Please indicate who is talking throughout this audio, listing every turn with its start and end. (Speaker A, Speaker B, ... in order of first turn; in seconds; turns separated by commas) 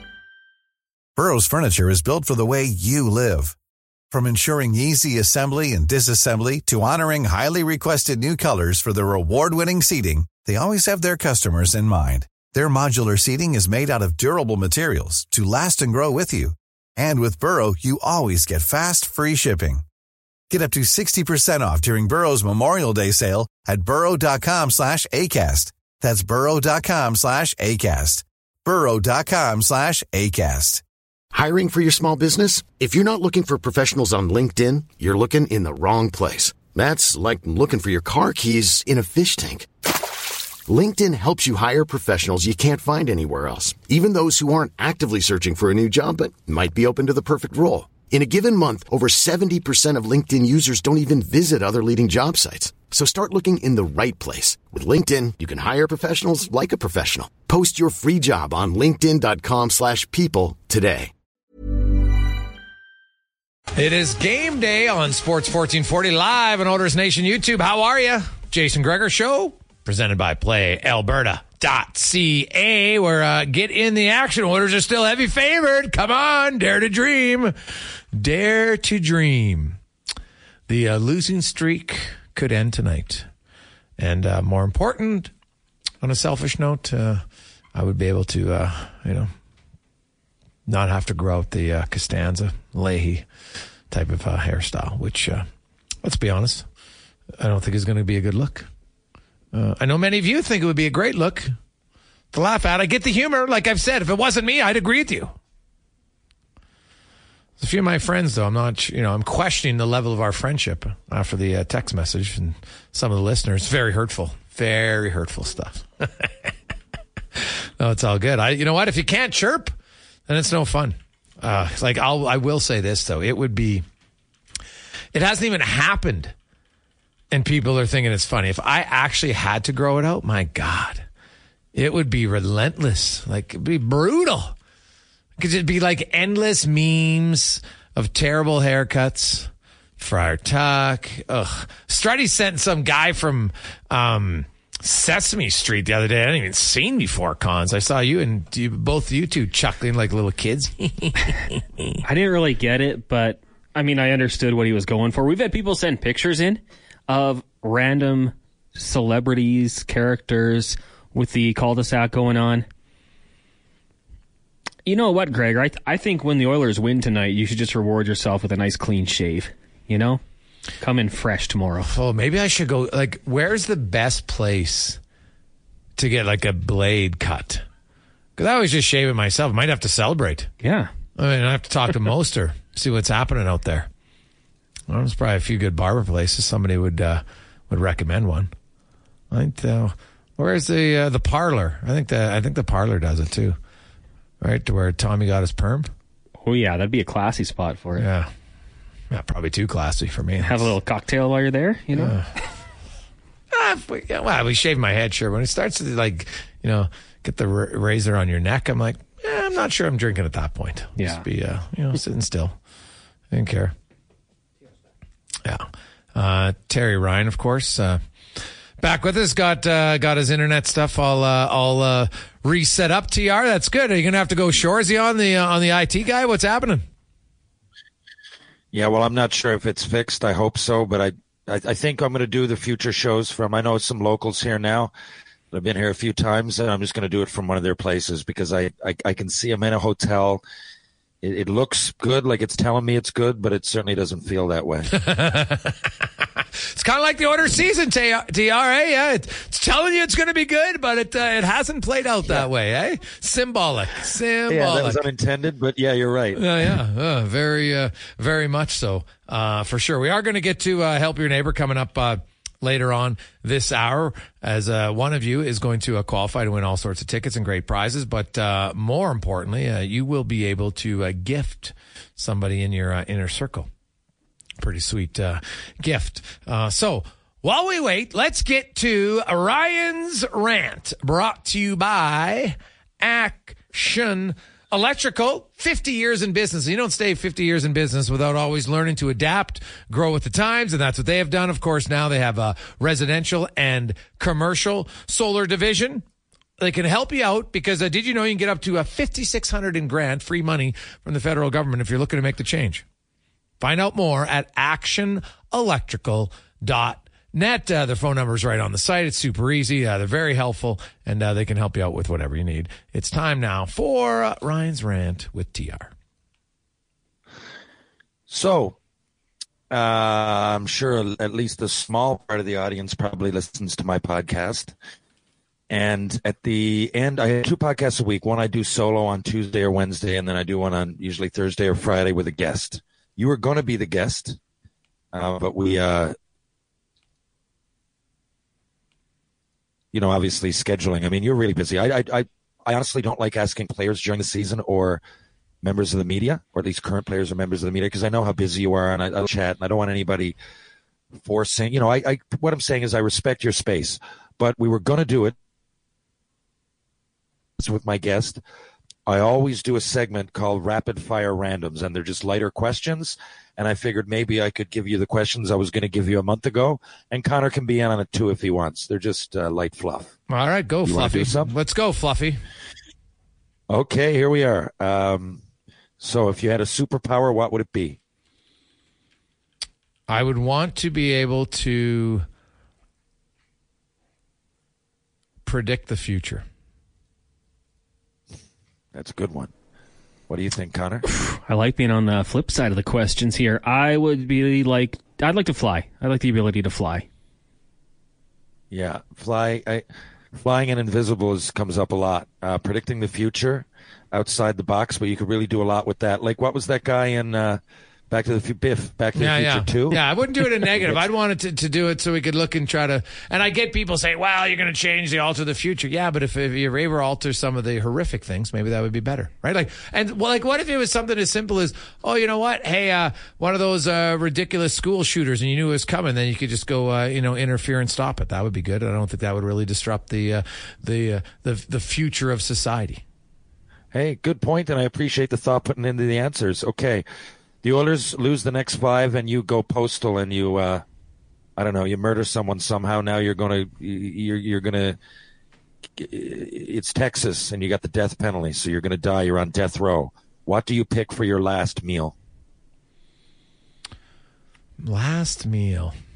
Speaker A: 1.1-3.5, Speaker A: 4.1-19.8, Speaker A: 20.5-30.8, Speaker B: 31.3-39.7, Speaker B: 40.7-61.1, Speaker C: 63.8-77.5, Speaker C: 78.1-79.8, Speaker C: 80.7-83.3, Speaker C: 84.0-85.3, Speaker C: 86.0-87.2, Speaker C: 87.7-89.3, Speaker C: 90.7-93.2, Speaker C: 93.9-95.5, Speaker C: 96.0-96.7, Speaker C: 97.4-98.7, Speaker C: 99.5-101.5, Speaker C: 102.3-105.3, Speaker C: 107.6-116.5, Speaker C: 117.3-119.7, Speaker C: 120.3-123.8, Speaker C: 125.1-126.3, Speaker C: 127.3-131.0, Speaker C: 131.7-134.5, Speaker C: 135.4-152.0, Speaker D: 152.0-162.7, Speaker D: 164.8-170.2, Speaker D: 170.8-171.9, Speaker C: 171.8-175.0, Speaker C: 176.0-177.6, Speaker C: 178.4-180.5, Speaker D: 180.6-180.9, Speaker C: 181.2-183.9, Speaker C: 184.9-188.5, Speaker C: 189.3-193.6, Speaker C: 194.4-195.9, Speaker D: 196.4-198.1, Speaker C: 198.0-198.3, Speaker C: 199.1-200.7, Speaker D: 200.4-202.2, Speaker C: 201.9-202.3, Speaker C: 203.5-212.5, Speaker D: 211.0-211.2, Speaker C: 213.3-213.7, Speaker C: 215.4-218.0, Speaker C: 218.8-226.8, Speaker E: 228.7-234.9, Speaker E: 235.5-240.4, Speaker E: 241.2-244.9, Speaker C: 244.9-246.1, Speaker C: 246.6-255.0, Speaker E: 254.5-256.4, Speaker C: 256.4-273.7, Speaker C: 274.6-296.0, Speaker C: 296.6-302.8, Speaker C: 303.6-315.9, Speaker E: 318.3-318.8, Speaker E: 319.7-324.7, Speaker E: 325.7-334.4, Speaker E: 335.1-336.1, Speaker E: 339.9-345.0, Speaker E: 345.6-350.4, Speaker E: 351.2-355.3, Speaker E: 357.6-358.4, Speaker E: 359.1-370.1, Speaker C: 370.3-372.4, Speaker E: 370.8-371.5, Speaker E: 373.7-375.4, Speaker E: 376.0-378.0, Speaker C: 380.1-382.2, Speaker C: 385.4-386.4, Speaker E: 388.9-389.5, Speaker E: 390.3-391.1, Speaker D: 391.2-397.1, Speaker E: 398.7-407.6, Speaker E: 408.1-410.0, Speaker C: 409.1-433.0, Speaker E: 410.6-410.9, Speaker E: 433.9-437.0, Speaker E: 437.6-440.8, Speaker E: 441.6-445.0, Speaker E: 446.0-452.1, Speaker C: 454.8-455.9